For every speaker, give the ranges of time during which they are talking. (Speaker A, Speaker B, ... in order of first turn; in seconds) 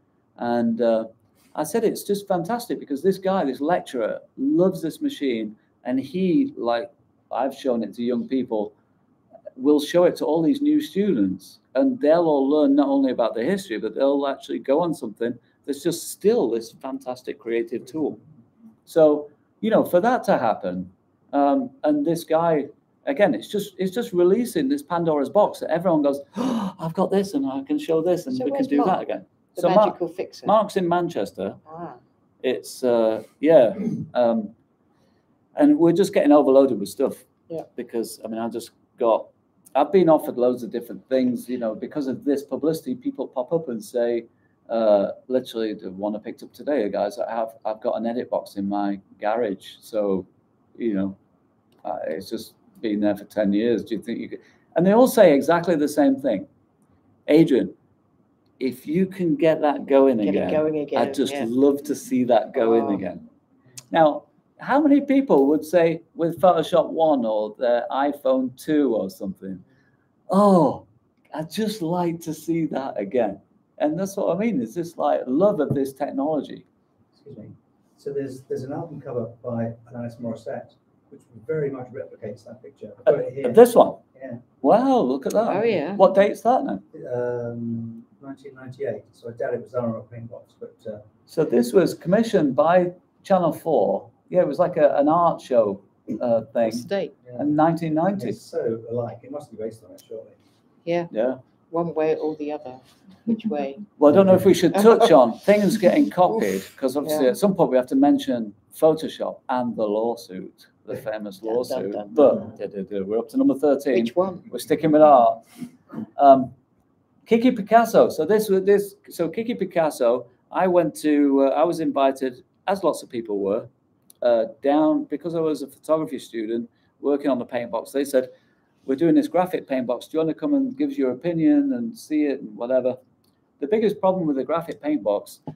Speaker A: 0.4-8.7, 9.6-18.2, 18.9-31.6, 32.4-34.5, 35.6-51.2, 51.8-56.5, 57.3-57.8, 58.6-63.2, 63.9-69.6, 70.3-76.7, 83.1-84.0, 84.6-86.8, 91.3-98.4, 101.1-101.4, 104.0-115.4, 116.2-116.5, 117.3-123.7, 124.2-128.3, 128.8-133.0, 133.6-135.4
Speaker B: 28.3-29.0, 29.6-30.5, 31.7-32.0, 60.2-61.5, 85.5-86.0, 96.6-97.1, 100.8-101.1, 101.7-103.8, 107.0-107.3, 111.5-112.5, 113.9-114.5
Speaker C: 77.2-83.6, 84.1-84.4, 86.9-91.1, 98.2-100.4, 104.1-104.4